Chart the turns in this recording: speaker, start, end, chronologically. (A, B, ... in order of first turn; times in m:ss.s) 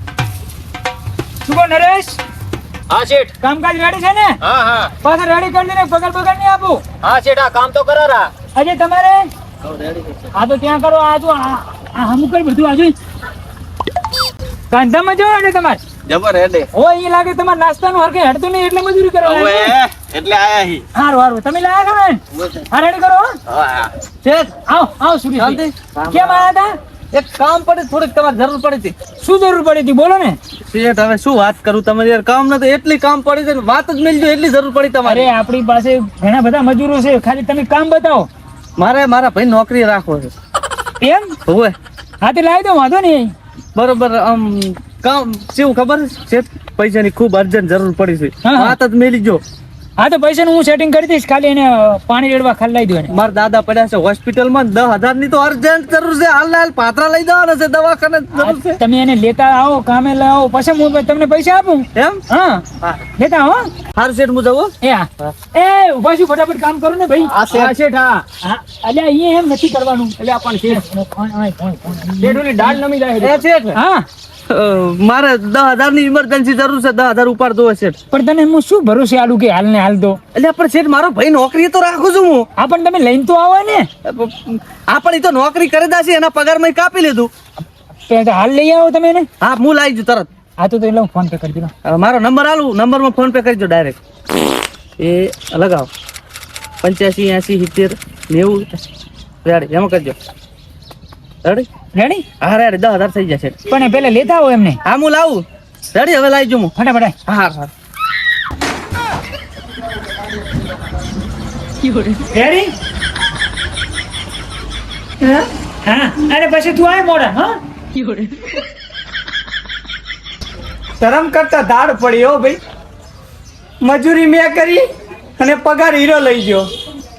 0:01.4-0:02.2 A
0:02.9-0:03.3 B
0:03.4-0:04.4 A
0:04.4-0:04.9 B
0:05.0-0:06.8 A
0:07.0-0:08.3 B
0:08.5-0:09.3 A
0:09.7-0:10.2 C
0:10.3-0:13.0 A
0:14.7-0:15.8 A
0:16.1-0:16.7 C
0:16.7-0:19.8 A
0:19.2-0:20.8 C
0:20.9-0:23.3 A
0:23.5-0:24.5 C
0:24.7-0:26.7 A
0:25.4-0:26.5 C
0:27.1-0:28.9 C
0:29.2-0:30.4 A
0:30.7-0:35.3 C
0:35.0-0:38.3 A
0:38.8-0:40.3 C
0:41.0-0:41.4 A
0:41.5-0:41.7 C
0:42.2-0:43.3 A
0:43.7-0:49.4 C
0:48.4-0:48.8 A
0:50.0-0:53.1 A
0:53.1-0:58.8 C
0:58.3-1:02.6 A
1:01.9-1:02.2 C
1:03.2-1:03.7 A
1:04.0-1:04.7 C
1:04.8-1:07.3 A
1:07.4-1:08.2 B
1:07.5-1:07.7 D
1:08.4-1:10.2 A
1:10.2-1:10.8 B
1:10.7-1:12.7 A
1:12.2-1:13.5 B
1:13.2-1:13.8 C
1:13.8-1:14.0 A
1:14.5-1:18.0 C
1:18.1-1:20.2 A
1:20.3-1:22.5 C
1:22.6-1:23.9 A
1:24.0-1:27.3 C
1:28.1-1:29.3 A
1:29.4-1:30.3 C
1:30.6-1:31.7 A
1:31.8-1:34.0 C
1:35.0-1:35.9 C
1:36.8-1:38.8 C
1:39.4-1:40.2 C
1:41.9-1:42.3 A
1:42.4-1:43.6 C
1:43.7-1:44.8 A
1:44.8-1:46.7 C
1:46.8-1:47.1 A
1:47.2-1:47.7 C
1:52.2-1:52.7 A
1:55.2-1:55.5 D
1:55.8-1:57.6 A
2:01.0-2:02.6 D
2:03.8-2:04.9 D
2:05.4-2:06.7 D